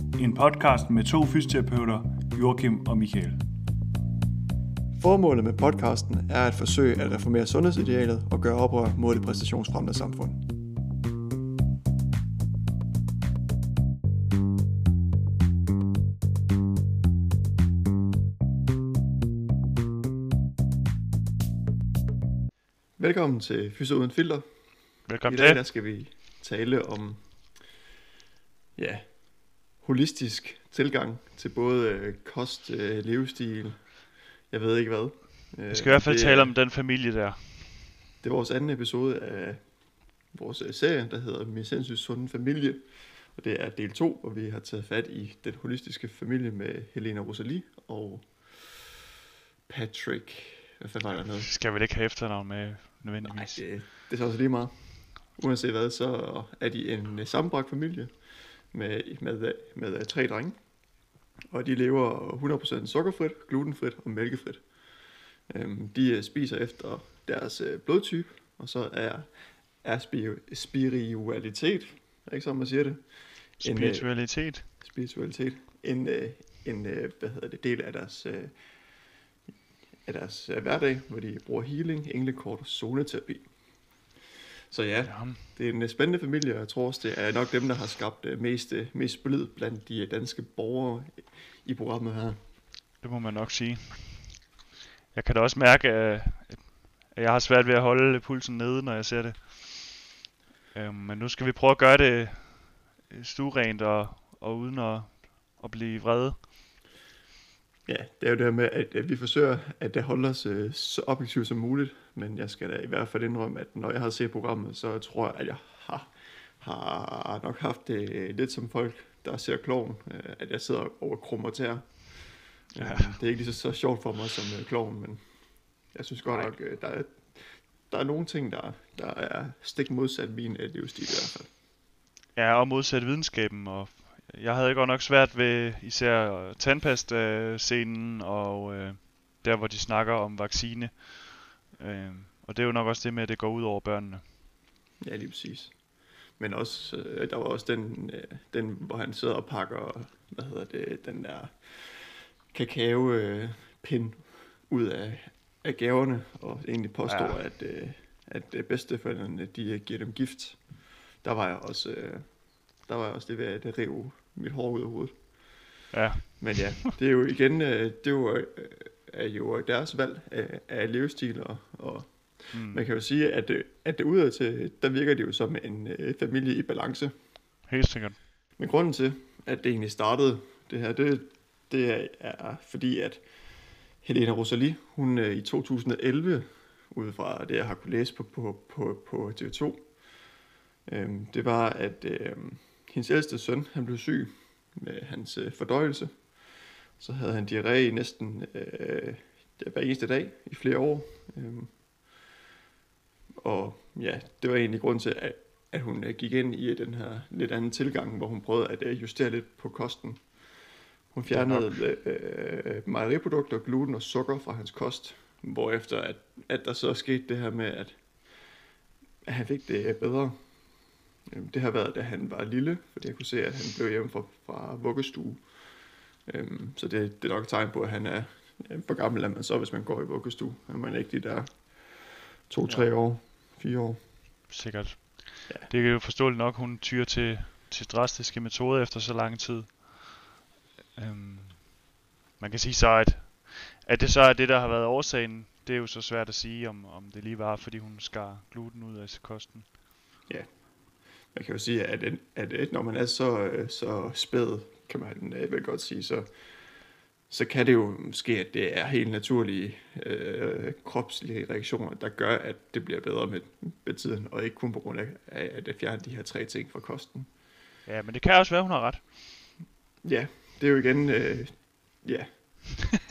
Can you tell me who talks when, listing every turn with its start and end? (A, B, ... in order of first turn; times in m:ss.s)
0:00.2-0:03.4 A
0:05.0-0:10.4 B
0:23.0-0:24.4 B
0:25.1-0:25.6 C
0:25.2-0:27.6 B
0:28.8-0:36.5 B
0:35.7-0:37.8 C
0:38.2-0:39.6 B
0:40.3-0:48.9 B
0:49.7-0:51.5 B
0:51.1-0:53.6 C
0:53.2-0:58.2 B
0:58.7-1:00.6 B
1:01.5-1:04.7 B
1:05.5-1:14.1 B
1:13.6-1:14.7 C
1:14.7-1:18.6 B
1:20.0-1:23.5 B
1:24.7-1:32.4 B
1:25.0-1:25.4 C
1:33.0-1:34.4 C
1:35.1-1:40.0 C
1:40.7-1:46.5 C
1:47.8-2:05.2 B
2:02.8-2:03.2 C
2:05.9-2:11.5 B
2:12.3-2:24.2 C
2:25.0-2:25.8 B
2:26.4-2:45.3 B
2:37.1-2:37.4 C
2:45.9-2:46.6 C
2:46.4-2:57.1 B
2:52.5-2:52.8 C
2:57.7-2:58.2 C
2:58.6-3:03.2 B
3:04.0-3:09.9 B
3:10.8-3:16.3 B
3:17.0-3:21.7 B
3:23.4-3:30.4 B
3:31.1-3:38.0 B
3:31.3-3:31.7 C
3:39.2-3:40.4 B
3:41.2-3:45.5 B
3:46.2-3:54.0 B
3:54.5-4:00.2 C
4:00.9-4:01.8 C
4:02.4-4:09.7 C
4:10.3-4:10.6 B
4:11.3-4:16.3 B
4:17.3-4:27.3 B
4:27.8-4:29.3 C
4:30.0-4:32.3 B